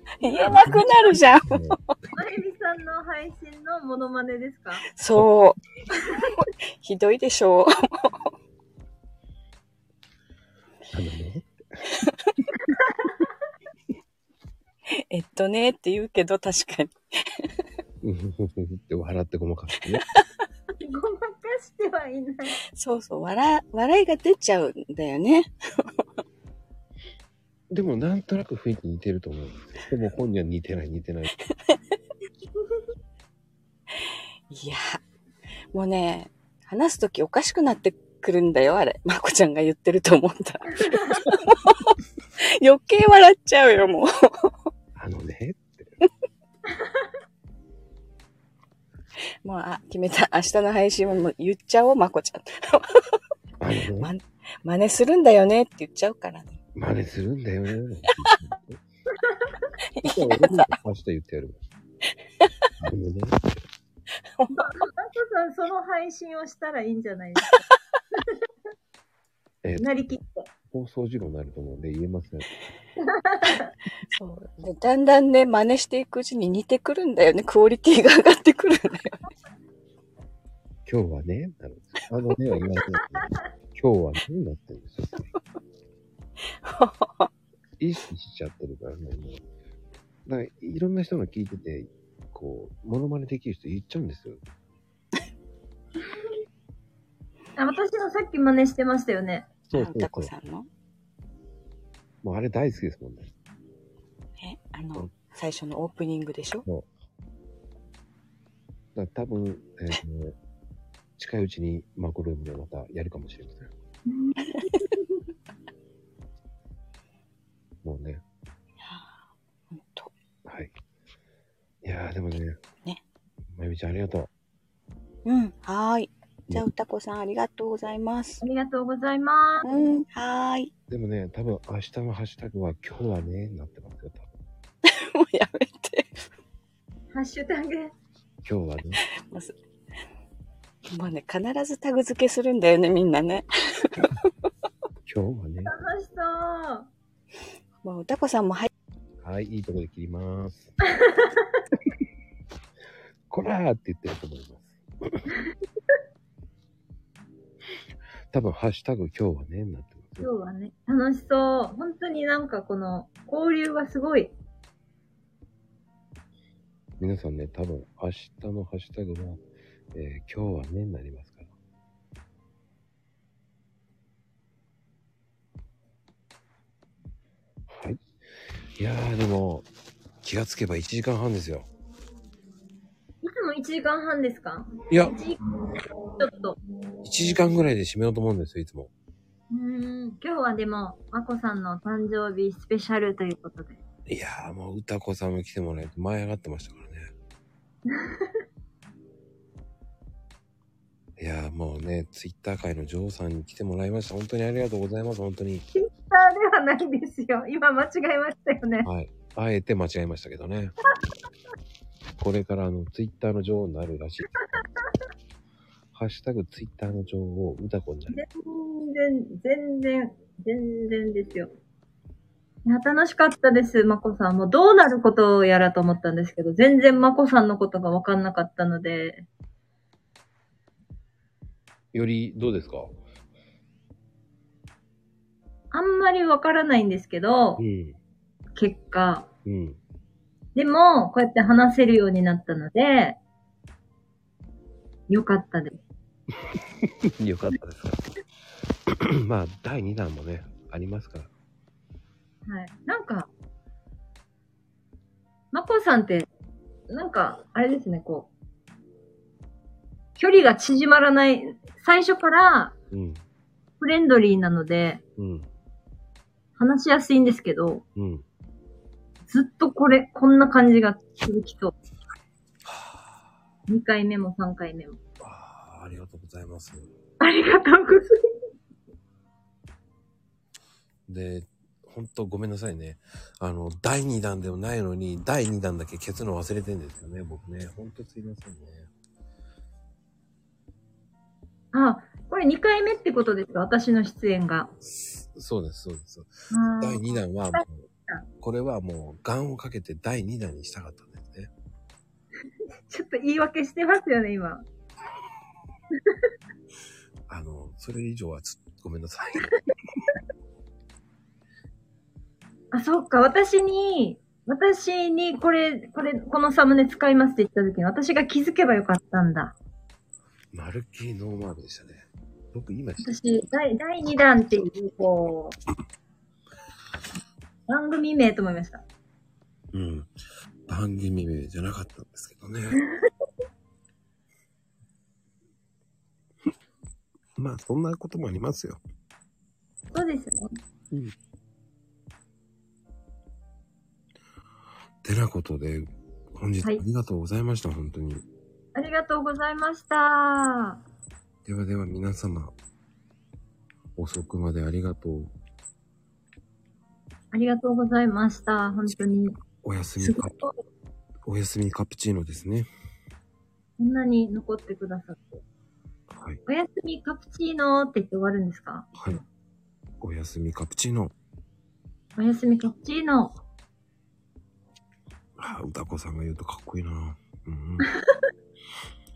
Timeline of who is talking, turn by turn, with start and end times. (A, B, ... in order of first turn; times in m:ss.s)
0:00.2-0:01.9 A
0:00.2-0:00.9 B
0:00.4-0:01.8 C
0:02.1-0:04.8 B
0:04.9-0:08.3 A
0:10.9-0:11.8 C
0:12.0-0:12.3 A
0:12.7-0:13.2 B
0:15.0-0:17.5 A
0:18.0-0:20.0 C
0:20.8-0:22.6 B
0:22.8-0:26.2 A
0:27.7-0:31.3 C
0:33.9-0:35.0 A
0:35.7-0:44.7 A
0:45.0-0:45.9 C
0:49.4-0:53.1 A
0:53.6-0:54.1 C
0:54.0-0:56.6 A
0:56.8-0:58.8 C
0:59.9-1:00.7 A
1:00.0-1:01.6 C
1:02.8-1:03.6 C
1:04.6-1:07.6 B
1:09.6-1:10.0 C
1:09.8-1:10.5 B
1:10.7-1:12.5 C
1:13.0-1:13.7 B
1:14.1-1:19.2 A
1:20.9-1:25.3 C
1:26.6-1:27.3 A
1:27.8-1:29.4 C
1:30.3-1:34.4 C
1:37.6-1:39.5 B
1:39.7-1:40.3 C
1:39.7-1:40.7 A
1:42.2-1:43.3 C
1:44.4-1:46.7 A
1:49.0-1:50.4 C
1:51.2-1:53.7 C
1:54.2-1:55.0 B
1:54.5-1:54.8 A
1:57.8-1:58.2 C
1:58.8-1:59.2 A
1:59.7-2:00.1 A
2:00.5-2:00.7 C
2:01.8-2:02.6 C
2:03.5-2:04.3 C
2:05.2-2:08.4 A
2:08.4-2:09.7 B
2:09.6-2:10.7 A
2:10.9-2:14.3 C
2:14.8-2:16.2 A
2:17.1-2:17.9 B
2:18.4-2:19.0 C
2:19.2-2:19.6 A
2:20.9-2:24.2 A
2:25.1-2:25.7 C
2:25.6-2:26.9 B
2:27.8-2:28.7 A
2:29.2-2:30.7 C
2:33.3-2:35.2 C
2:38.3-2:40.3 C
2:40.2-2:44.3 B
2:47.0-2:51.5 C
2:57.7-2:58.0 C
2:58.8-2:59.7 C
3:00.2-3:01.7 C
3:03.2-3:05.4 B
3:04.9-3:05.2 C
3:06.2-3:06.6 B
3:07.0-3:08.9 C
3:09.5-3:13.8 B
3:14.1-3:17.1 C
3:17.9-3:18.3 B
3:21.2-3:25.7 C
3:25.8-3:28.9 B
3:28.8-3:30.7 C
3:32.2-3:34.6 C
3:35.9-3:38.2 C
3:38.1-3:41.5 B
3:42.6-3:49.3 B
3:51.9-3:53.0 C
3:55.7-3:57.6 B
3:57.6-3:58.0 C
3:58.6-3:59.3 B
3:59.4-3:59.8 C
4:00.6-4:03.2 B
4:05.1-4:05.8 B
4:06.6-4:08.1 C
4:08.9-4:11.3 C
4:12.5-4:13.3 B
4:15.5-4:16.3 B
4:16.9-4:18.3 B
4:20.2-4:22.8 B
4:22.9-4:23.2 C
4:23.8-4:25.0 B
4:25.2-4:25.5 C
4:26.6-4:27.8 B
4:28.0-4:28.2 C
4:29.3-4:31.7 B
4:32.7-4:33.1 C
4:33.7-4:35.0 B
4:35.2-4:36.9 C
4:37.2-4:38.2 B
4:41.1-4:48.9 C
4:51.7-4:54.7 B
4:55.3-4:57.9 C
4:56.5-4:58.3 B
4:58.4-5:01.5 C
5:02.9-5:04.6 B
5:07.3-5:09.5 C
5:12.7-5:19.6 B
5:20.5-5:23.1 C
5:23.0-5:25.6 B
5:27.7-5:28.8 B
5:29.7-5:30.1 C
5:30.7-5:32.8 C
5:37.4-5:38.8 C
5:39.9-5:40.5 B
5:45.0-5:48.2 C
5:48.8-5:50.8 B
5:51.5-5:52.5 C
5:54.0-5:55.3 C
5:57.3-5:59.4 B
5:59.6-6:00.4 C
6:00.0-6:00.5 B
6:01.3-6:02.7 C
6:03.8-6:05.4 B
6:06.1-6:06.4 C
6:06.5-6:09.2 B
6:09.0-6:09.2 C
6:10.0-6:11.1 C
6:12.2-6:13.4 B
6:15.4-6:17.9 C